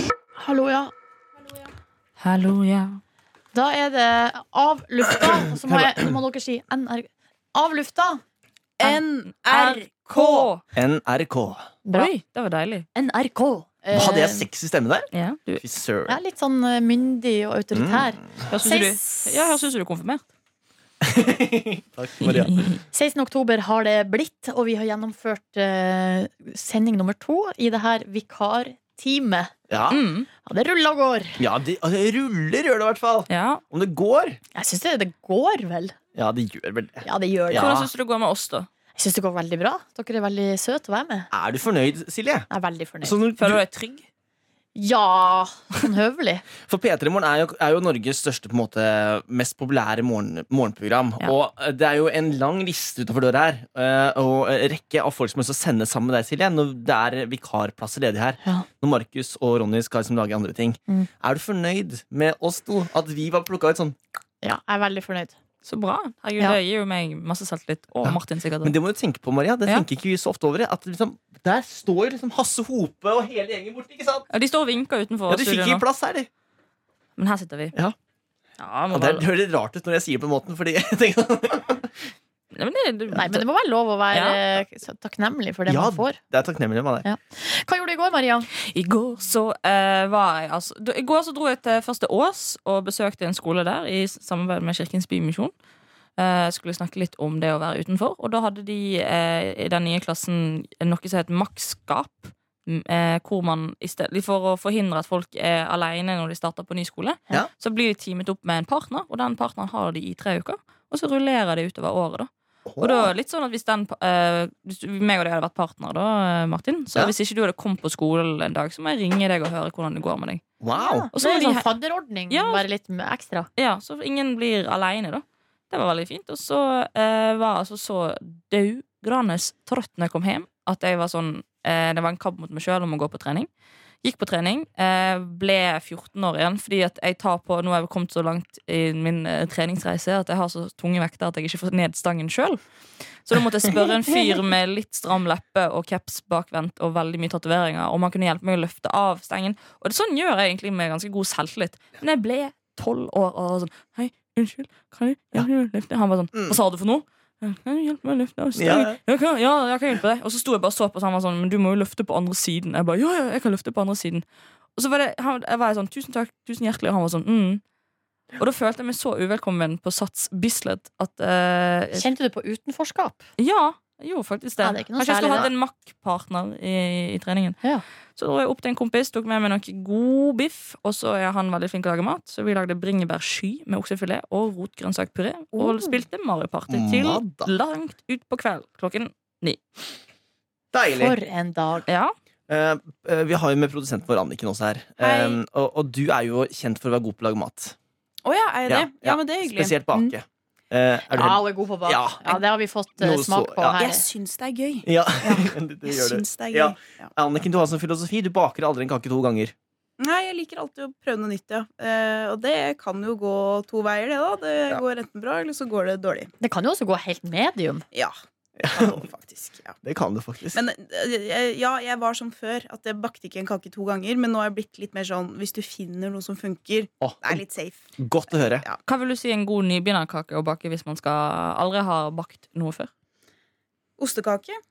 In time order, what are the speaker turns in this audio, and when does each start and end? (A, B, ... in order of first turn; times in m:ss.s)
0:00.4-0:00.9 A
0:02.2-0:03.0 B
0:03.5-0:08.2 A
0:05.6-0:06.1 C
0:08.8-0:10.5 D
0:09.4-0:10.6 B
0:10.7-0:11.6 C
0:11.8-0:12.1 A
0:11.9-0:12.8 B
0:12.9-0:14.5 A
0:13.9-0:16.2 C
0:15.1-0:15.6 B
0:16.1-0:19.6 A
0:17.7-0:18.1 C
0:18.5-0:20.2 B
0:21.0-0:22.6 C
0:22.2-0:22.8 B
0:22.9-0:29.5 A
0:29.7-0:30.0 C
0:29.9-0:30.3 B
0:30.4-0:31.4 A
0:31.4-0:34.4 C
0:33.3-0:33.6 B
0:34.5-0:35.9 A
0:36.1-0:37.9 C
0:37.0-0:37.7 A
0:37.5-0:38.7 B
0:39.0-0:41.3 A
0:41.3-0:42.5 C
0:42.5-0:43.2 A
0:43.0-0:43.6 C
0:43.4-0:44.0 B
0:44.8-0:46.4 A
0:46.6-1:04.0 C
1:04.4-1:05.4 A
1:05.6-1:08.8 B
1:08.0-1:14.3 C
1:14.3-1:15.8 B
1:15.3-1:16.3 C
1:17.2-1:17.7 B
1:18.6-1:19.2 B
1:18.9-1:21.9 C
1:22.5-1:23.4 B
1:23.2-1:26.2 A
1:24.1-1:24.4 B
1:25.7-1:27.0 C
1:27.0-1:28.5 A
1:28.7-1:35.5 B
1:36.2-1:52.3 B
1:52.7-1:53.1 C
1:52.8-2:00.4 B
2:00.6-2:01.1 C
2:00.7-2:03.5 A
2:01.1-2:01.7 B
2:02.3-2:02.6 B
2:03.6-2:13.5 B
2:14.0-2:22.6 B
2:23.2-2:44.2 B
2:38.6-2:39.0 C
2:44.8-2:47.6 B
2:48.4-2:52.0 B
2:51.9-2:53.2 A
2:53.4-2:57.6 B
2:54.6-2:55.5 A
2:58.2-3:09.6 B
3:05.5-3:06.0 A
3:06.7-3:07.5 C
3:10.7-3:11.2 C
3:10.9-3:11.9 A
3:11.9-3:12.1 B
3:12.5-3:17.8 C
3:18.2-3:20.1 D
3:18.7-3:22.4 C
3:21.1-3:24.0 A
3:23.0-3:23.8 C
3:23.8-3:27.1 D
3:24.8-3:29.5 C
3:30.0-3:36.3 D
3:36.4-3:37.8 A
3:38.6-3:39.0 C
3:38.7-3:39.7 D
3:39.8-3:40.6 C
3:40.5-3:47.8 D
3:47.0-3:47.4 C
3:48.0-3:48.6 C
3:48.3-3:48.8 D
3:48.8-3:52.9 B
3:54.0-3:54.6 D